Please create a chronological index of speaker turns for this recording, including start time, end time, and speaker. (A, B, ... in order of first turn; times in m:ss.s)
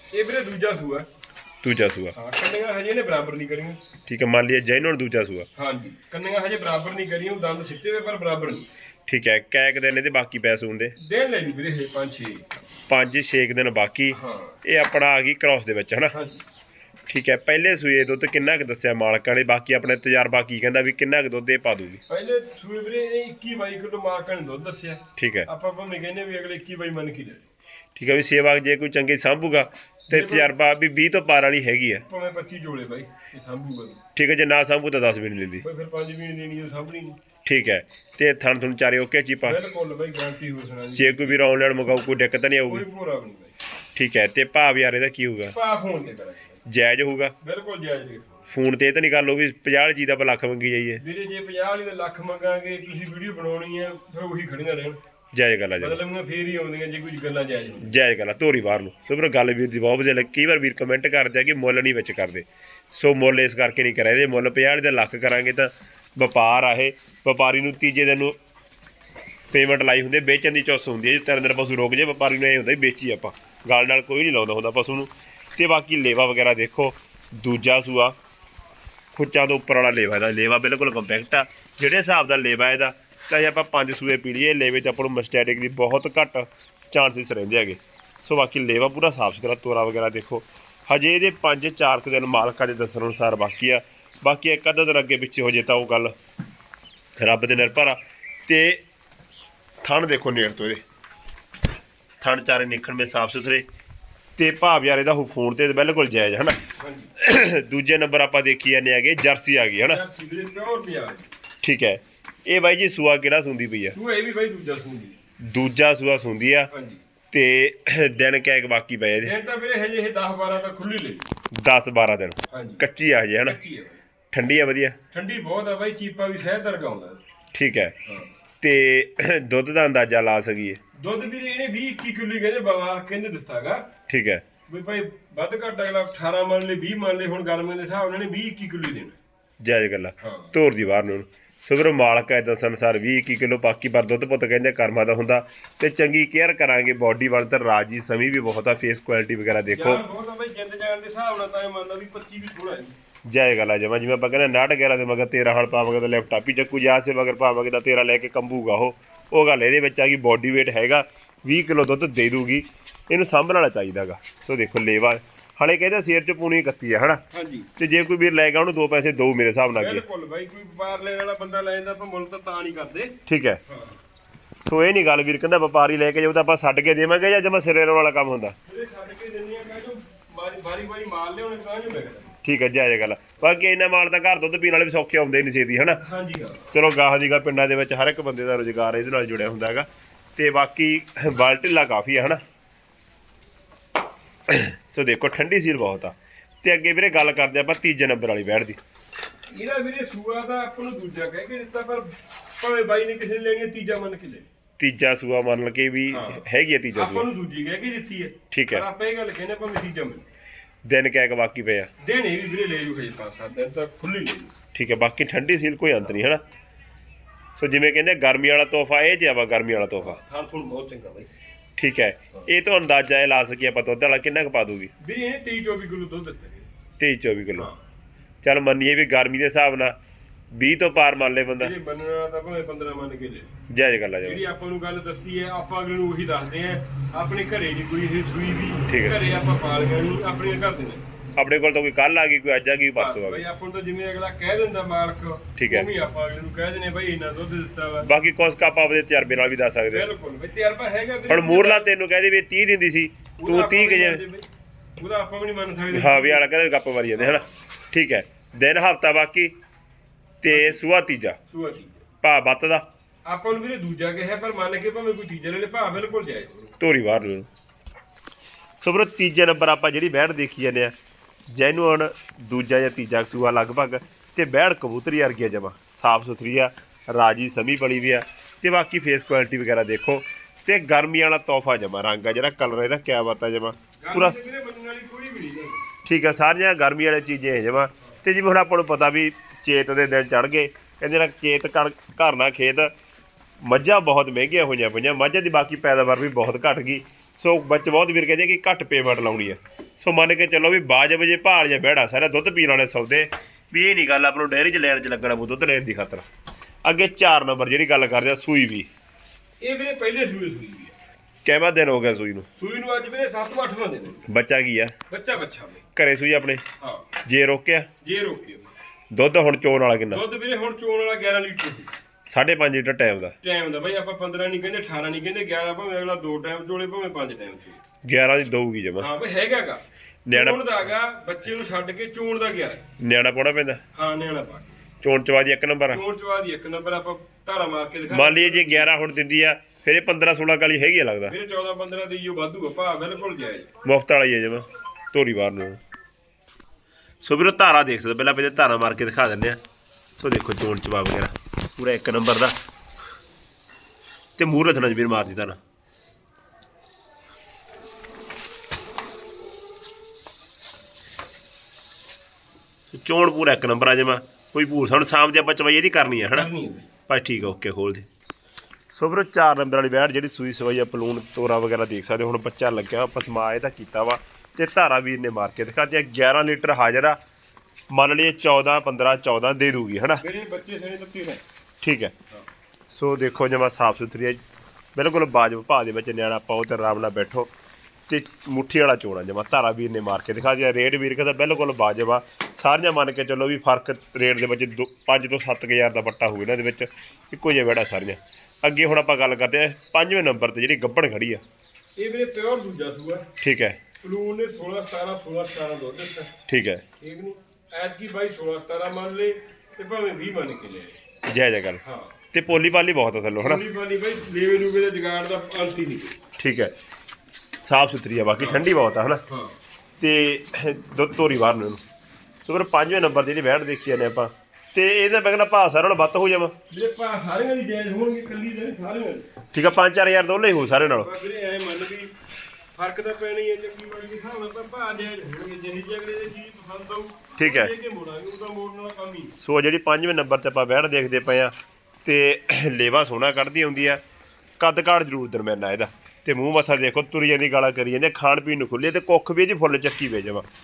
0:00.1-0:01.1 A
0:01.6-0:02.2 B
0:02.1-0:03.8 A
0:04.0-0:05.5 B
0:05.6-0:08.7 A
0:09.1-0:11.0 B
0:11.0-0:12.6 A
0:12.9-0:16.2 B
0:14.1-0:14.6 A
0:16.1-0:16.4 A
0:17.1-0:22.0 B
0:22.1-0:27.4 A
0:25.2-0:25.5 B
0:28.0-0:32.0 B
0:30.1-0:30.5 A
0:32.1-0:34.0 A
0:34.2-0:35.6 B
0:35.6-0:37.2 A
0:37.4-0:39.6 B
0:39.4-0:41.4 A
0:41.0-0:42.8 B
0:42.7-0:43.5 A
0:44.0-0:45.6 B
0:45.5-0:46.5 A
0:46.7-0:47.4 B
0:47.4-0:48.5 A
0:48.5-0:51.0 B
0:51.0-0:55.0 A
0:55.3-0:56.0 B
0:55.8-0:57.9 A
0:57.8-1:08.4 B
1:09.5-1:18.2 B
1:19.2-1:36.1 B
1:37.2-1:38.8 B
1:39.8-1:40.8 B
1:42.2-1:43.6 B
1:44.4-1:46.6 B
1:46.8-1:47.1 A
1:47.2-1:50.0 B
1:49.9-1:51.3 A
1:51.6-1:54.0 B
1:53.9-1:55.2 A
1:55.4-1:56.7 B
1:56.7-1:57.0 A
1:57.3-1:59.3 B
1:59.2-2:01.3 A
2:01.5-2:03.6 B
2:02.5-2:02.8 A
2:03.5-2:04.0 A
2:04.3-2:05.0 B
2:05.1-2:07.2 A
2:07.5-2:08.0 B
2:08.0-2:08.3 A
2:08.6-2:10.8 B
2:10.9-2:13.9 A
2:14.1-2:14.4 B
2:14.7-2:19.2 A
2:19.6-2:30.0 B
2:20.2-2:20.6 A
2:29.7-2:33.0 A
2:33.2-2:47.2 B
2:47.3-2:47.7 A
2:47.8-2:50.0 B
2:49.8-2:54.0 A
2:53.3-2:53.6 B
2:54.6-2:58.6 B
2:58.7-3:02.4 A
3:02.4-3:06.0 B
3:06.0-3:06.7 A
3:06.7-3:12.4 B
3:14.5-3:18.8 B
3:19.5-3:24.5 A
3:24.8-3:27.3 B
3:26.1-3:26.4 A
3:26.9-3:30.3 A
3:28.5-3:28.9 B
3:30.8-3:31.9 B
3:32.0-3:34.6 A
3:34.7-3:36.4 B
3:37.6-3:40.2 B
3:40.0-3:41.3 A
3:41.8-3:44.9 B
3:45.0-3:46.7 A
3:47.0-3:47.7 B
3:48.4-3:50.0 B
3:50.5-3:51.7 B
3:51.6-3:53.5 A
3:53.7-3:54.4 B
3:54.2-4:01.0 A
3:58.9-3:59.2 B
4:01.4-4:03.4 B
4:03.0-4:08.1 A
4:05.6-4:05.9 B
4:08.0-4:10.1 B
4:09.9-4:11.9 A
4:11.3-4:14.2 B
4:13.4-4:16.5 A
4:15.9-4:19.5 B
4:17.2-4:17.6 A
4:20.4-4:21.4 B
4:20.5-4:20.8 A
4:21.5-4:22.0 A
4:22.2-4:22.8 B
4:23.3-4:26.7 A
4:26.8-4:27.5 B
4:28.8-4:30.9 B
4:31.5-4:44.5 B
4:44.0-4:45.8 A
4:46.0-4:52.9 B
4:53.6-5:06.3 B
5:06.8-5:08.9 B
5:09.6-5:11.0 A
5:11.4-5:12.5 B
5:12.6-5:14.3 A
5:14.3-5:15.0 B
5:15.1-5:15.8 A
5:16.0-5:16.6 B
5:16.8-5:17.1 A
5:17.2-5:17.9 B
5:18.0-5:18.7 A
5:19.1-5:20.2 B
5:20.1-5:22.0 A
5:22.3-5:23.4 B
5:23.4-5:27.8 A
5:28.0-5:29.1 B
5:29.0-5:32.8 A
5:30.3-5:30.6 B
5:33.0-5:33.8 B
5:34.0-5:34.8 A
5:35.0-5:36.0 B
5:35.9-5:38.9 A
5:38.1-5:41.4 B
5:41.2-5:43.8 A
5:43.8-5:45.8 B
5:47.2-5:49.6 B
5:50.2-5:52.6 B
5:54.4-5:55.6 B
6:02.9-6:06.5 B
6:06.3-6:06.9 A
6:07.1-6:08.1 B
6:08.9-6:17.2 B
6:17.9-6:20.2 B
6:20.2-6:21.4 A
6:21.8-6:22.2 B
6:22.9-6:24.4 B
6:25.0-6:27.5 B
6:28.1-6:41.4 B
6:42.0-6:43.3 A
6:43.4-6:43.8 B
6:44.0-6:46.3 A
6:46.5-6:46.8 B
6:47.0-6:51.0 A
6:51.3-6:51.8 B
6:51.8-6:52.2 A
6:52.3-6:53.6 B
6:53.4-6:56.2 A
6:56.4-6:56.7 B
6:57.6-6:59.2 B
6:59.3-6:59.6 A
7:00.0-7:01.8 B
7:02.4-7:06.5 B
7:06.7-7:09.3 A
7:09.5-7:11.1 B
7:11.0-7:12.1 A
7:12.8-7:19.4 A
7:17.4-7:17.7 B
7:19.4-7:21.5 B
7:22.0-7:24.0 B
7:24.6-7:30.4 B